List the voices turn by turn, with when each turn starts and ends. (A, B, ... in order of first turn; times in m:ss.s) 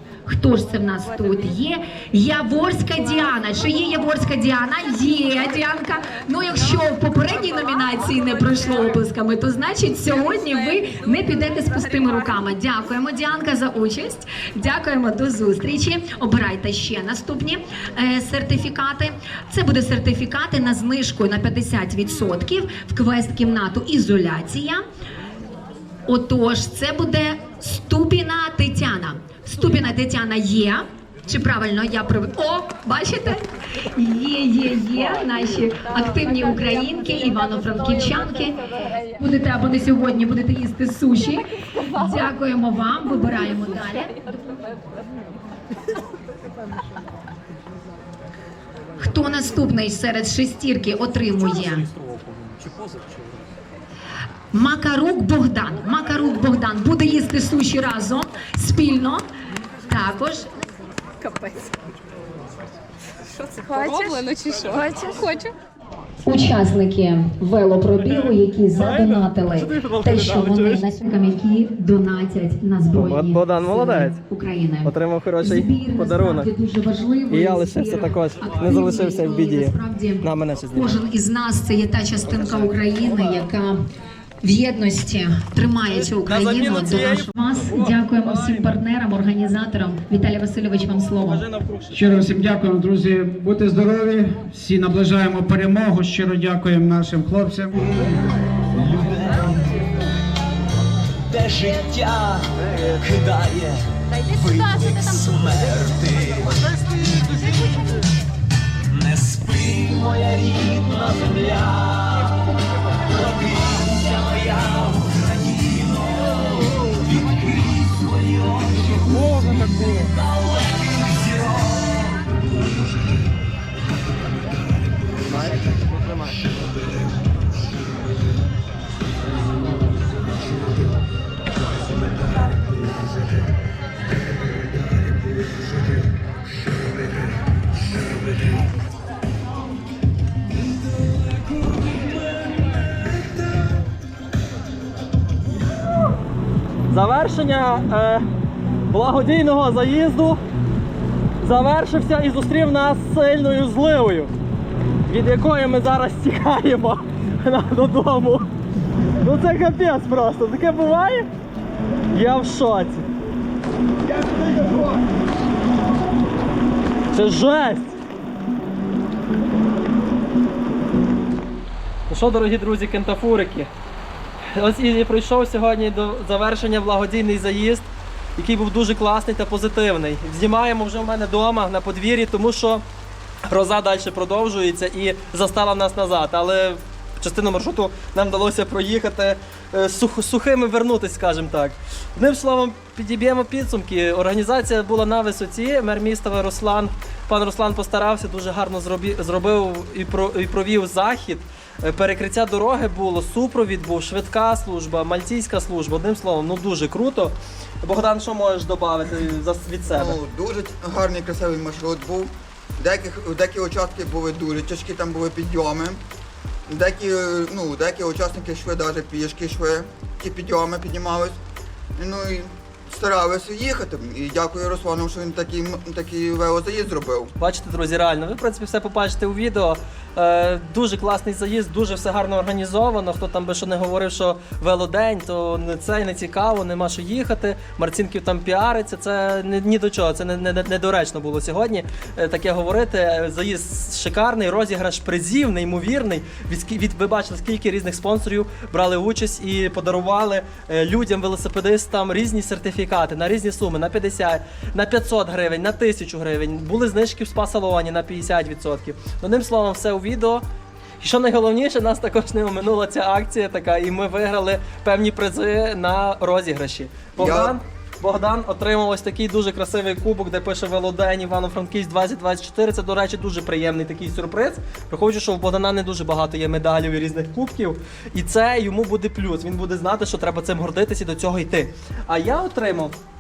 0:00.2-0:24.8 A
0:26.1-0:44.4 A
0:49.0-0:51.9 A
0:54.5-0:59.3 A
0:59.9-1:00.5 A
1:03.4-1:05.5 B
1:06.2-1:23.8 A
1:08.0-1:10.9 C
1:12.9-1:14.2 C
1:14.8-1:16.5 C
1:17.3-1:21.0 C
1:22.3-1:23.4 C
1:24.4-1:31.5 A
1:25.9-1:28.8 C
1:31.2-1:32.3 C
1:31.9-1:37.8 D
1:38.7-1:39.9 E
1:41.3-1:46.7 E
1:48.9-1:52.4 E
1:53.0-2:02.4 E
2:05.3-2:05.6 C
2:26.9-2:28.3 C
2:28.9-2:30.4 C
2:31.4-2:34.3 C
2:35.1-2:38.5 C
2:39.2-2:41.3 C
2:42.1-2:43.1 C
2:47.1-2:48.0 C
2:52.1-2:53.7 C
2:54.5-3:02.8 C
3:03.5-3:30.2 C
3:29.9-3:36.0 F
3:36.7-3:41.4 F
3:42.0-3:47.3 F
3:47.4-4:20.4 C
4:21.0-4:43.0 C
4:27.2-4:27.6 F